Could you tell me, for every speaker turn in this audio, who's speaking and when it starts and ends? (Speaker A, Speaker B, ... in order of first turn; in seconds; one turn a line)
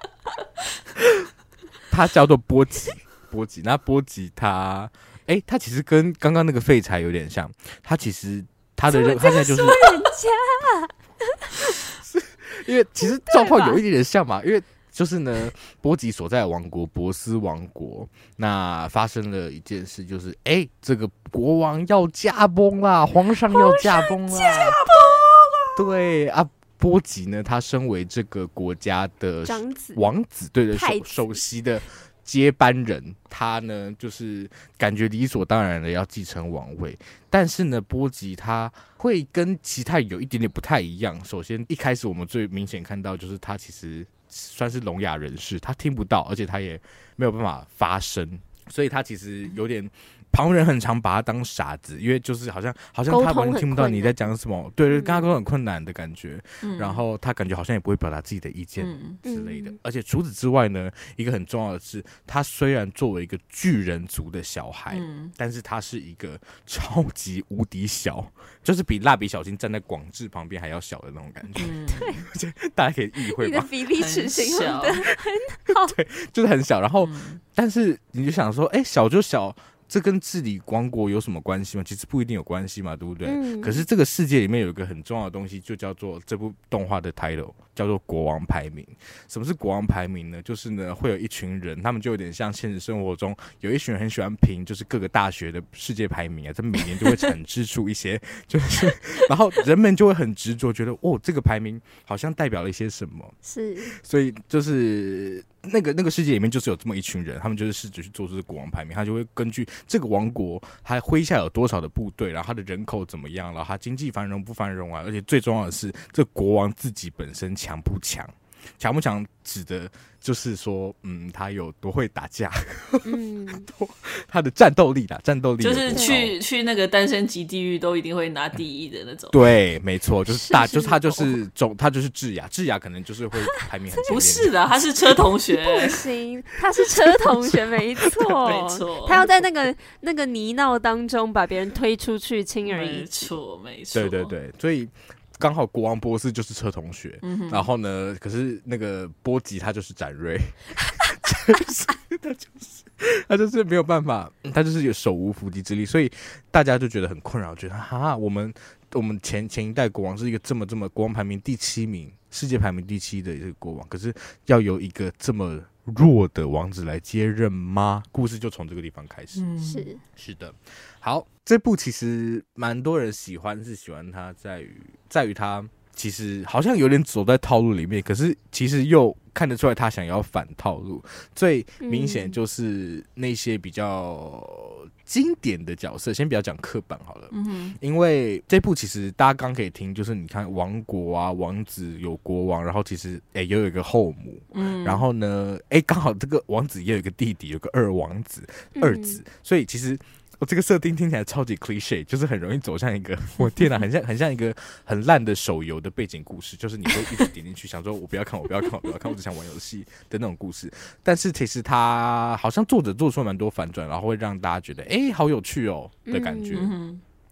Speaker A: 1.9-9.9
Speaker B: 8.9-11.5
Speaker A: 12.0-24.8
Speaker B: 13.0-13.8
Speaker B: 23.7-25.2
Speaker C: 24.6-25.1
Speaker A: 25.8-73.7
Speaker B: 29.4-30.1
Speaker B: 30.7-31.4
Speaker B: 53.1-54.3
Speaker B: 54.9-55.3
Speaker C: 56.6-57.0
Speaker C: 58.8-59.2
Speaker B: 59.2-59.8
Speaker C: 64.9-65.3
Speaker C: 71.6-72.1
Speaker B: 71.9-72.2
Speaker B: 73.3-76.0
Speaker C: 74.0-75.0
Speaker A: 75.8-103.3
Speaker C: 77.0-77.4
Speaker B: 83.2-83.9
Speaker B: 103.4-103.9
Speaker A: 103.9-126.4
Speaker B: 123.0-123.7
Speaker C: 125.6-129.5
Speaker B: 125.9-126.2
Speaker A: 129.3-134.6
Speaker B: 130.3-131.4
Speaker C: 134.1-136.0
Speaker B: 135.5-143.3
Speaker A: 138.1-138.6
Speaker C: 138.4-139.3
Speaker C: 142.7-144.3
Speaker A: 143.9-169.4
Speaker C: 147.2-147.7
Speaker C: 169.4-169.9
Speaker B: 169.6-170.0
Speaker A: 170.2-216.8
Speaker B: 181.8-182.4
Speaker C: 187.3-187.8
Speaker C: 194.5-195.1
Speaker B: 198.8-199.2
Speaker B: 216.1-216.7
Speaker C: 216.5-217.0